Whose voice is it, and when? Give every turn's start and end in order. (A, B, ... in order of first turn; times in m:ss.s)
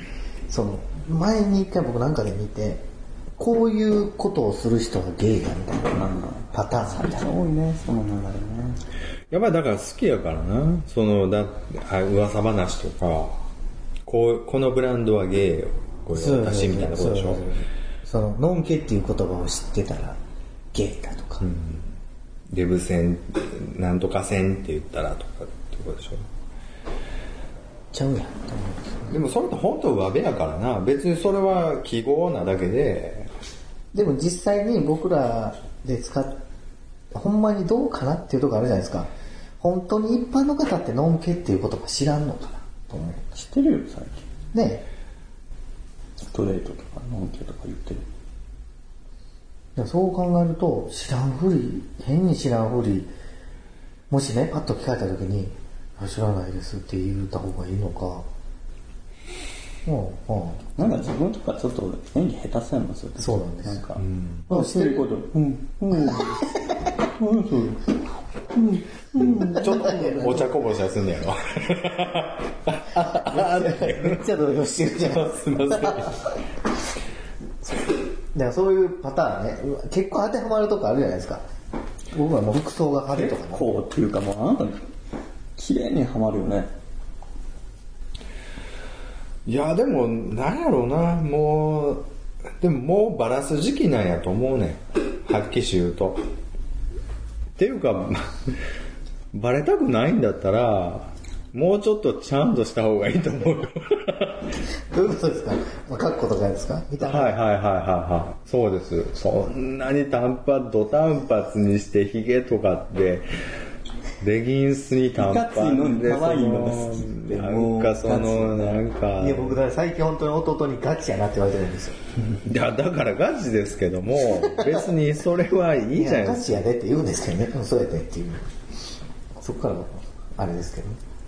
0:00.5-0:02.8 A
0:03.4-0:07.3 A
0:05.9-0:08.8 B
0:09.3-0:13.4 C
0:14.1-0:17.4 C
0:16.1-0:20.2 A
0:20.7-0:21.4 A
0:21.4-0:21.9 C
0:22.5-0:26.3 C
0:27.9-0:29.2 A
0:29.1-0:33.3 C
0:33.9-0:36.4 A
0:37.1-0:39.1 A
0:39.6-0:43.4 A
0:43.4-0:44.3 B
0:44.5-0:44.8 A
0:46.3-0:48.1 B
0:49.8-0:53.1 A
0:54.1-0:58.3 A
0:59.8-1:01.1 A
1:00.8-1:06.4 B
1:03.2-1:03.9 A
1:04.0-1:04.5 C
1:04.5-1:05.1 A
1:07.1-1:07.9 B
1:08.5-1:09.8 B
1:09.2-1:14.2 C
1:09.2-1:10.5 A
1:12.9-1:16.2 A
1:15.0-1:16.3 C
1:18.3-1:21.4 A
1:22.1-1:23.8 A
1:23.1-1:24.8 B
1:25.6-1:26.7 B
1:29.5-1:32.1 C
1:32.6-1:36.2 C
1:37.6-1:38.6 C
1:39.3-1:44.5 C
1:44.9-1:47.4 A
1:47.0-1:53.3 C
1:54.2-1:59.6 C
1:55.2-1:58.8 B
1:59.2-2:02.0 A
2:02.4-2:06.7 C
2:06.0-2:08.4 A
2:09.4-2:11.0 A